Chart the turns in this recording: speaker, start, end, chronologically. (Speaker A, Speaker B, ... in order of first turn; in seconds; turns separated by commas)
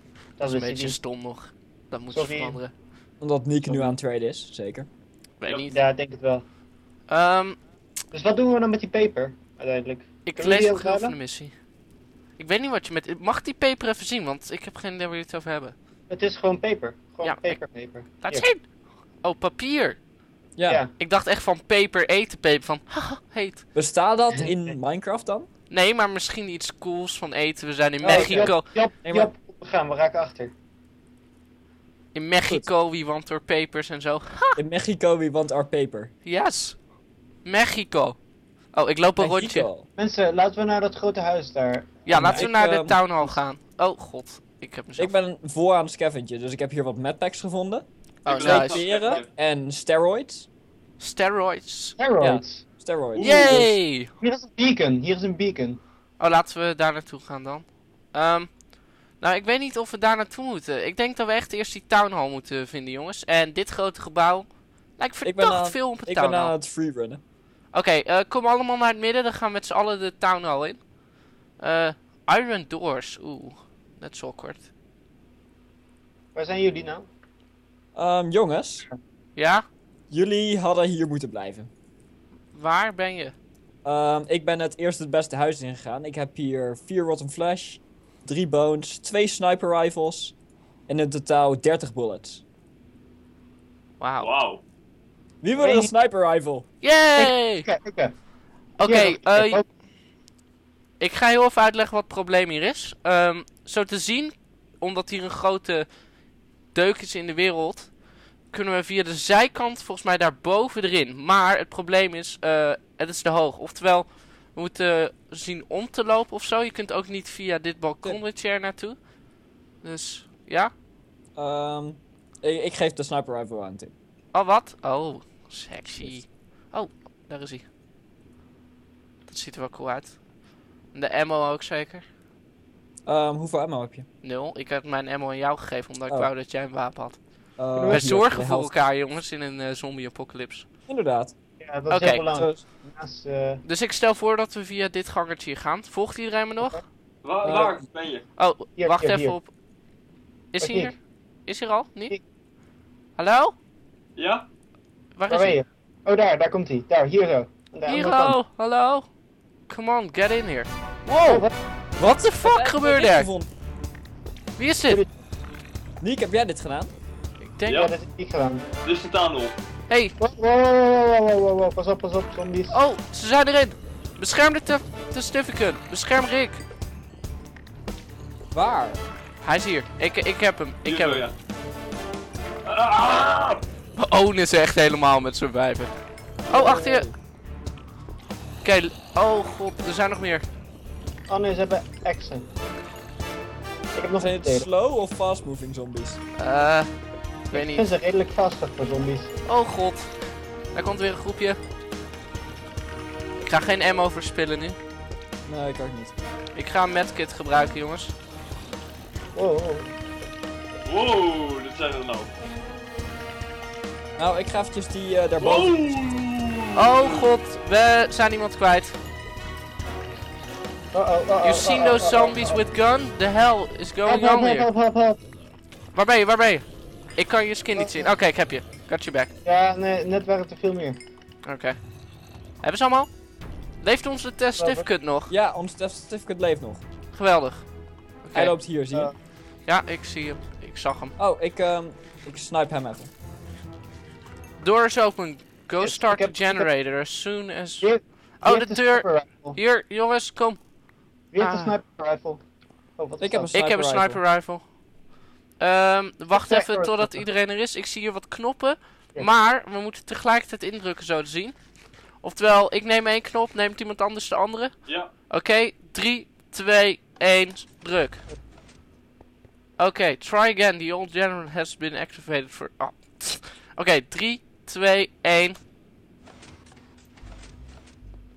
Speaker A: 0.4-1.0, Speaker B: 0.4-2.7, Speaker A: 2.1-2.6, Speaker C: 3.2-4.9, Speaker A: 3.6-4.0, Speaker B: 5.4-5.8, Speaker D: 5.5-5.7, Speaker A: 5.7-6.4, Speaker B: 7.1-7.6, Speaker A: 8.1-11.2, Speaker B: 10.2-11.5, Speaker B: 12.4-15.7, Speaker A: 16.1-18.5, Speaker B: 17.2-17.6, Speaker B: 18.2-18.6, Speaker B: 19.2-20.0, Speaker C: 20.6-20.8, Speaker A: 20.7-20.9, Speaker B: 21.0-23.6, Speaker C: 23.7-25.5, Speaker B: 25.7-28.6, Speaker C: 28.0-29.3, Speaker A: 28.0-30.5, Speaker B: 32.1-34.6, Speaker C: 34.5-36.1, Speaker B: 36.2-36.8, Speaker B: 37.4-38.2, Speaker B: 38.7-39.7, Speaker C: 39.2-39.9, Speaker A: 40.0-42.5, Speaker B: 42.0-45.1, Speaker C: 42.1-43.0, Speaker C: 45.0-47.9, Speaker B: 48.2-48.9, Speaker D: 48.2-49.3, Speaker C: 48.4-50.5, Speaker B: 51.0-52.0, Speaker A: 52.0-52.6, Speaker C: 52.2-53.7, Speaker D: 53.1-53.7, Speaker B: 53.2-54.1, Speaker A: 54.2-55.8, Speaker B: 56.2-58.6, Speaker B: 59.1-66.5, Speaker C: 65.2-67.2, Speaker B: 67.7-70.8, Speaker B: 71.6-74.7, Speaker A: 76.3-77.1, Speaker C: 77.9-78.8, Speaker B: 79.3-79.6, Speaker C: 80.1-81.7, Speaker B: 82.5-83.3, Speaker C: 83.8-90.3, Speaker C: 90.9-92.4, Speaker B: 94.0-94.3, Speaker D: 94.2-94.6, Speaker C: 95.4-96.7, Speaker A: 95.6-95.9, Speaker B: 96.8-97.7, Speaker A: 97.2-98.1, Speaker B: 98.8-99.6, Speaker A: 98.8-99.6, Speaker B: 101.0-105.9, Speaker B: 106.7-107.9, Speaker B: 108.5-119.0, Speaker B: 119.8-120.7, Speaker C: 121.3-123.9, Speaker B: 124.3-127.7, Speaker B: 129.2-130.2, Speaker B: 130.9-132.0, Speaker C: 133.1-134.1, Speaker B: 134.2-137.2, Speaker C: 137.6-138.7, Speaker A: 137.8-138.1, Speaker B: 137.8-140.7, Speaker C: 140.9-141.3, Speaker A: 141.6-143.6, Speaker B: 141.9-142.2, Speaker C: 142.3-142.6, Speaker B: 143.6-146.8, Speaker D: 147.2-148.2, Speaker C: 147.4-147.8, Speaker B: 148.4-149.5, Speaker A: 148.8-149.4, Speaker B: 150.5-150.9, Speaker A: 150.6-151.0, Speaker B: 151.4-152.2, Speaker B: 153.2-153.6, Speaker D: 154.2-154.4, Speaker B: 155.2-155.6, Speaker A: 155.3-158.4, Speaker B: 157.8-159.1, Speaker B: 159.7-160.7, Speaker B: 161.2-161.5, Speaker A: 161.2-161.5, Speaker B: 162.0-163.3, Speaker C: 162.4-163.5, Speaker B: 164.6-165.0, Speaker A: 164.9-165.1, Speaker C: 166.0-166.9, Speaker B: 167.4-167.8, Speaker D: 167.6-167.9, Speaker A: 167.7-168.7, Speaker D: 168.8-169.6, Speaker B: 169.9-170.1, Speaker A: 170.2-172.8, Speaker B: 172.7-176.6, Speaker C: 178.5-179.0, Speaker B: 179.4-181.2, Speaker D: 180.8-181.3, Speaker D: 182.6-183.6, Speaker B: 184.0-185.9, Speaker B: 186.5-187.1, Speaker C: 186.5-187.2, Speaker B: 188.6-190.4, Speaker A: 191.3-192.5, Speaker A: 193.9-194.7, Speaker C: 194.2-196.2, Speaker B: 196.4-196.9, Speaker B: 197.5-197.9, Speaker A: 197.5-199.4, Speaker B: 199.4-200.1, Speaker B: 200.7-201.6, Speaker B: 203.4-204.8, Speaker C: 205.4-206.1, Speaker B: 206.5-208.1, Speaker A: 209.3-209.9, Speaker D: 210.8-212.3, Speaker C: 214.2-215.7, Speaker D: 215.4-217.3, Speaker B: 216.8-219.0, Speaker A: 220.9-222.6, Speaker B: 221.4-224.7, Speaker A: 224.0-225.2, Speaker B: 225.9-229.3, Speaker A: 227.7-228.1, Speaker A: 229.4-231.0, Speaker B: 231.4-231.8, Speaker B: 232.6-233.1, Speaker B: 233.8-235.3, Speaker A: 234.6-234.9, Speaker C: 235.3-236.8, Speaker B: 237.1-237.7, Speaker B: 238.2-238.6, Speaker C: 238.3-239.1, Speaker B: 239.7-241.1, Speaker C: 241.2-243.1, Speaker B: 244.6-250.6, Speaker A: 245.8-246.7, Speaker A: 247.8-249.6, Speaker A: 251.3-252.4, Speaker B: 251.4-251.8, Speaker A: 253.0-253.6, Speaker C: 253.2-254.2, Speaker B: 253.5-254.7, Speaker B: 255.6-261.6, Speaker A: 256.3-257.2, Speaker B: 262.2-264.8, Speaker D: 264.9-265.1, Speaker B: 265.3-268.2, Speaker B: 269.8-275.6